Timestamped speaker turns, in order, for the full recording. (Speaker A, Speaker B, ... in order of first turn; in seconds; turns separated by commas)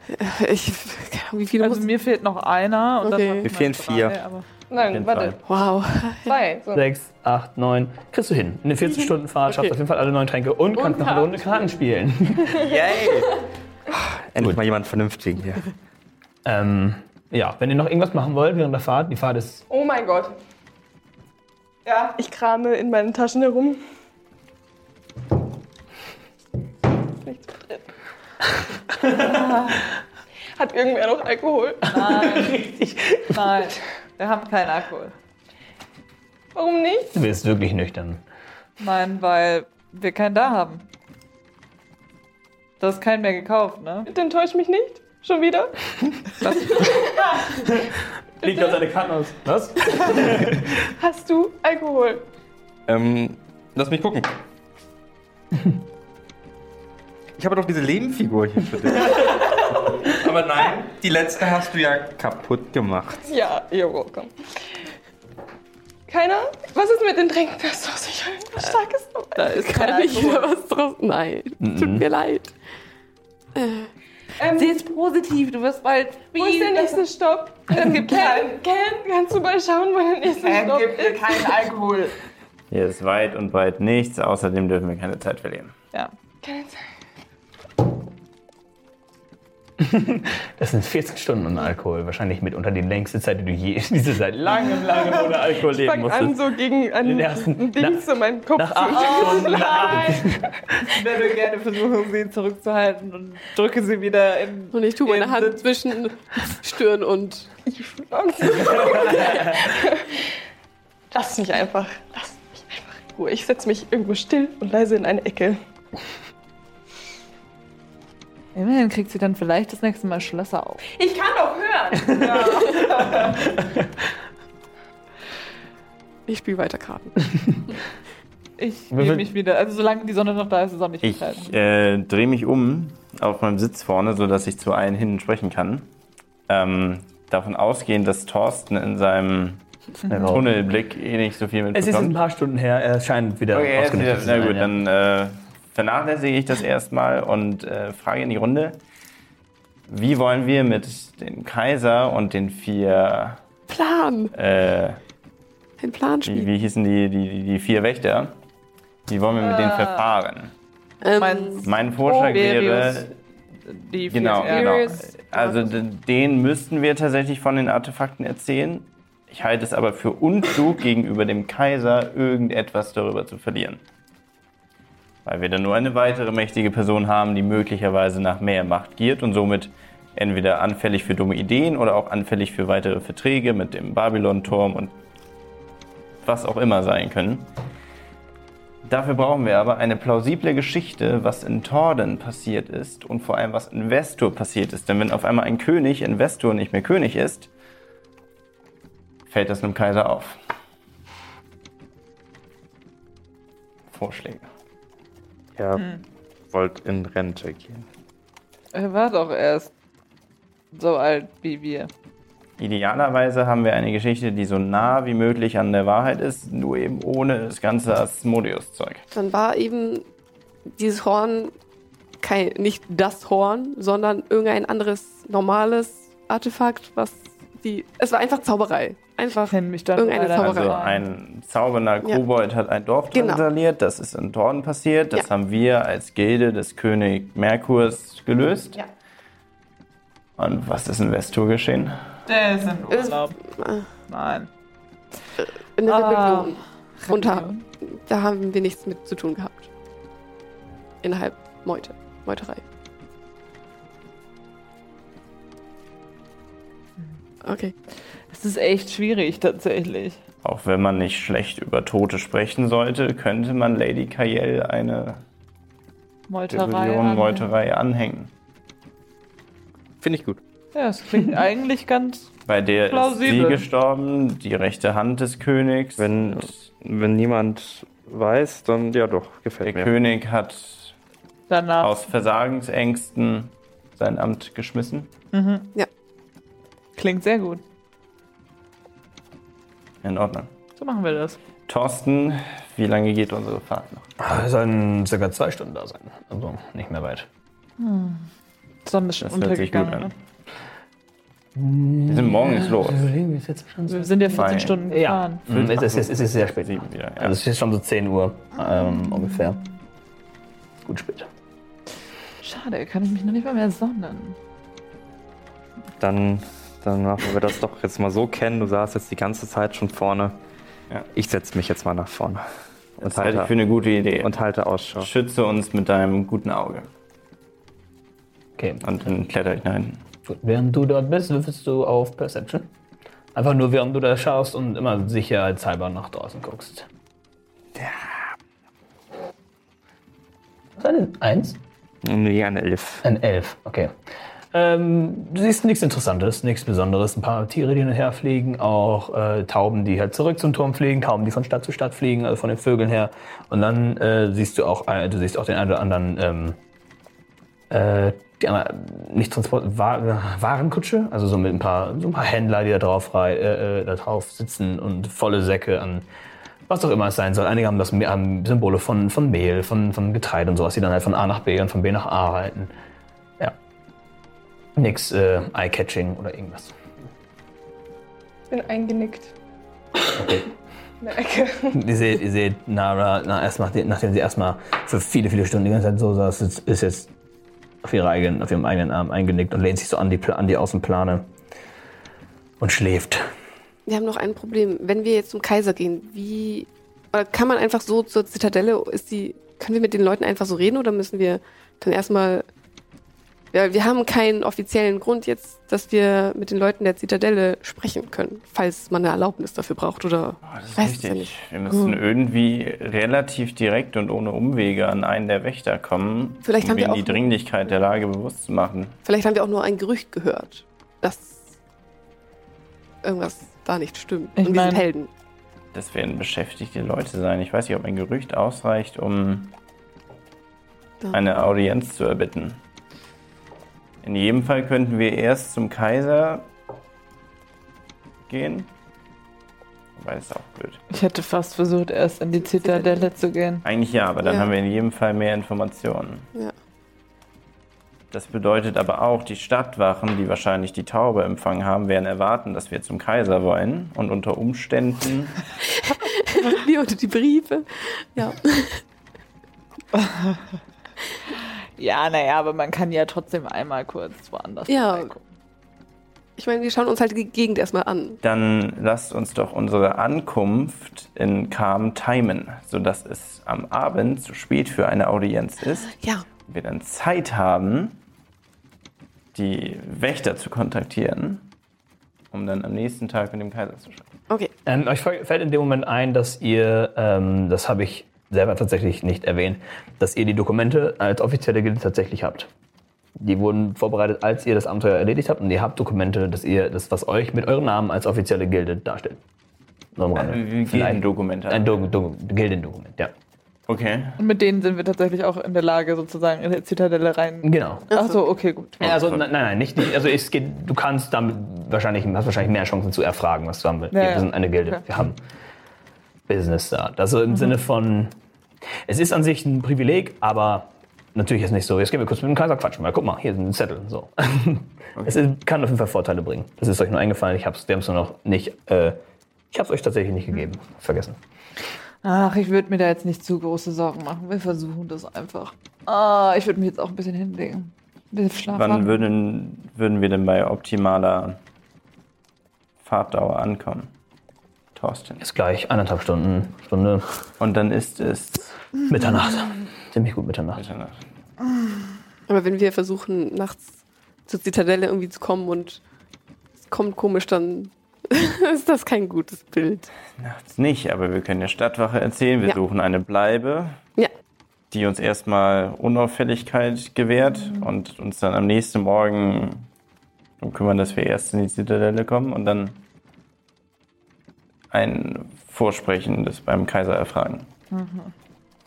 Speaker A: 0.1-1.9, Speaker B: 1.6-4.4, Speaker A: 3.0-3.5, Speaker C: 3.4-4.2, Speaker D: 4.7-5.4, Speaker E: 4.8-5.4, Speaker A: 5.4-6.4, Speaker D: 6.2-6.8, Speaker F: 6.7-12.7, Speaker A: 9.1-9.7, Speaker A: 10.8-11.6, Speaker C: 12.6-13.4, Speaker C: 13.9-15.6, Speaker F: 16.4-19.6, Speaker D: 19.7-20.4, Speaker B: 21.9-22.1, Speaker D: 22.1-23.8, Speaker D: 27.1-27.9, Speaker B: 29.1-29.8, Speaker D: 30.5-32.4, Speaker B: 31.9-32.6, Speaker F: 32.0-33.6, Speaker B: 33.3-35.1, Speaker D: 36.5-37.1, Speaker F: 37.1-38.2, Speaker B: 38.8-40.9, Speaker B: 42.8-44.1, Speaker D: 44.1-45.7, Speaker B: 46.4-47.4, Speaker D: 46.6-47.4, Speaker F: 48.4-50.8, Speaker D: 50.8-52.3, Speaker C: 52.9-54.4, Speaker C: 57.4-63.2, Speaker D: 63.2-64.3, Speaker D: 66.1-70.3, Speaker A: 69.3-72.5, Speaker B: 69.7-70.4, Speaker F: 71.6-72.1, Speaker A: 73.5-73.9, Speaker D: 74.4-74.8, Speaker B: 74.5-77.0, Speaker D: 76.3-81.5, Speaker B: 77.7-78.6, Speaker B: 80.3-82.2, Speaker E: 82.7-85.7, Speaker D: 86.4-86.8, Speaker F: 89.8-100.9, Speaker D: 95.6-100.5, Speaker B: 98.9-100.2, Speaker B: 100.8-105.6, Speaker A: 104.7-107.5, Speaker D: 107.7-110.2, Speaker F: 108.6-109.7, Speaker D: 111.1-115.6, Speaker B: 118.5-120.8, Speaker D: 120.8-122.7, Speaker F: 122.0-122.6, Speaker B: 122.1-123.4, Speaker F: 123.2-123.9, Speaker A: 126.3-127.2, Speaker B: 128.6-131.5, Speaker F: 128.9-129.3, Speaker E: 131.0-135.9, Speaker E: 136.5-142.2, Speaker F: 140.1-140.5, Speaker F: 141.7-144.8, Speaker E: 143.5-148.8, Speaker E: 149.9-153.4, Speaker A: 153.7-154.3, Speaker E: 154.3-155.0, Speaker A: 155.8-156.5, Speaker E: 156.2-158.3, Speaker E: 159.1-160.5, Speaker B: 159.4-160.1, Speaker A: 161.0-161.6, Speaker B: 161.2-163.1, Speaker E: 161.6-163.1, Speaker B: 163.7-165.1, Speaker E: 164.1-173.8, Speaker A: 164.4-165.6, Speaker E: 175.2-185.0, Speaker E: 186.2-187.5, Speaker E: 188.8-197.5, Speaker E: 199.3-200.4, Speaker E: 203.9-204.5, Speaker C: 205.6-205.9, Speaker C: 206.5-207.8, Speaker B: 208.7-209.7, Speaker B: 210.7-211.9, Speaker E: 212.6-219.0, Speaker A: 219.1-220.1, Speaker A: 220.8-221.5, Speaker A: 222.2-230.8, Speaker B: 229.5-231.1, Speaker E: 230.3-238.8, Speaker A: 233.1-233.4, Speaker E: 240.4-242.0, Speaker B: 242.3-243.4, Speaker A: 242.9-243.9, Speaker B: 244.1-244.5, Speaker A: 245.8-249.7, Speaker B: 245.8-247.6, Speaker A: 251.0-252.6, Speaker A: 257.4-257.7, Speaker B: 258.3-260.2, Speaker E: 260.4-265.2, Speaker B: 266.3-267.5, Speaker E: 266.5-268.3, Speaker C: 270.0-270.4, Speaker B: 270.7-272.3, Speaker E: 272.5-276.5, Speaker B: 272.9-273.6, Speaker C: 276.0-279.9, Speaker E: 279.6-280.9, Speaker B: 281.5-282.0, Speaker E: 281.8-285.1, Speaker B: 285.3-285.7, Speaker B: 287.0-287.6, Speaker E: 290.0-290.5, Speaker B: 290.8-291.4, Speaker E: 291.7-294.1, Speaker F: 294.2-297.3, Speaker B: 297.8-298.2, Speaker B: 298.8-300.1, Speaker E: 299.2-300.1, Speaker F: 301.6-309.6, Speaker E: 302.1-303.1, Speaker B: 303.9-305.4, Speaker E: 304.3-304.8, Speaker E: 305.4-307.4, Speaker F: 310.8-311.3, Speaker B: 312.4-314.4, Speaker C: 316.0-320.4, Speaker C: 321.1-322.4, Speaker E: 323.0-324.4, Speaker C: 323.0-323.5, Speaker C: 324.2-325.1, Speaker E: 325.0-326.9, Speaker F: 328.6-328.8, Speaker E: 328.8-330.0, Speaker F: 330.2-332.7, Speaker F: 333.3-336.9, Speaker C: 337.8-338.0, Speaker F: 340.8-341.6, Speaker C: 342.0-343.0, Speaker F: 343.0-343.9, Speaker F: 344.5-356.6, Speaker F: 357.7-366.1, Speaker F: 366.7-372.7, Speaker F: 374.8-376.7, Speaker D: 378.5-379.3, Speaker F: 380.1-380.5, Speaker D: 381.0-381.8, Speaker F: 381.7-387.1, Speaker F: 387.8-391.3, Speaker F: 392.6-393.2, Speaker A: 393.9-402.4, Speaker A: 403.5-411.3, Speaker E: 410.4-419.0, Speaker A: 416.4-417.2, Speaker A: 419.0-421.6, Speaker A: 423.0-425.1, Speaker B: 424.4-424.9, Speaker E: 425.7-429.5, Speaker E: 431.1-432.6, Speaker E: 434.0-436.5, Speaker E: 438.3-438.7, Speaker E: 439.9-440.8, Speaker B: 440.9-443.6, Speaker A: 442.6-443.1, Speaker E: 443.6-446.3, Speaker A: 444.2-444.5, Speaker E: 448.1-455.4, Speaker A: 455.7-458.8, Speaker B: 459.9-460.4, Speaker B: 461.4-465.2, Speaker A: 464.7-465.1, Speaker A: 466.4-468.2, Speaker E: 468.2-478.0, Speaker A: 475.9-476.2, Speaker E: 479.3-481.5, Speaker E: 482.3-484.1, Speaker F: 484.6-492.5, Speaker F: 493.1-499.2, Speaker F: 499.9-503.1, Speaker E: 500.1-501.7, Speaker E: 503.7-504.2, Speaker B: 504.2-508.9, Speaker F: 507.4-507.9, Speaker F: 508.8-515.2, Speaker B: 513.9-514.8, Speaker F: 516.3-518.1, Speaker F: 518.9-529.0, Speaker F: 529.5-531.2, Speaker B: 532.0-539.1, Speaker E: 538.5-541.4, Speaker E: 542.8-543.9, Speaker E: 544.8-545.2, Speaker F: 545.2-547.0, Speaker E: 547.4-548.5, Speaker F: 548.9-550.6, Speaker E: 550.5-551.0, Speaker A: 552.3-553.7, Speaker A: 554.3-555.8, Speaker A: 556.6-559.9, Speaker E: 560.2-563.8, Speaker E: 564.7-569.7, Speaker E: 570.4-572.8, Speaker E: 574.7-577.5, Speaker B: 577.7-578.1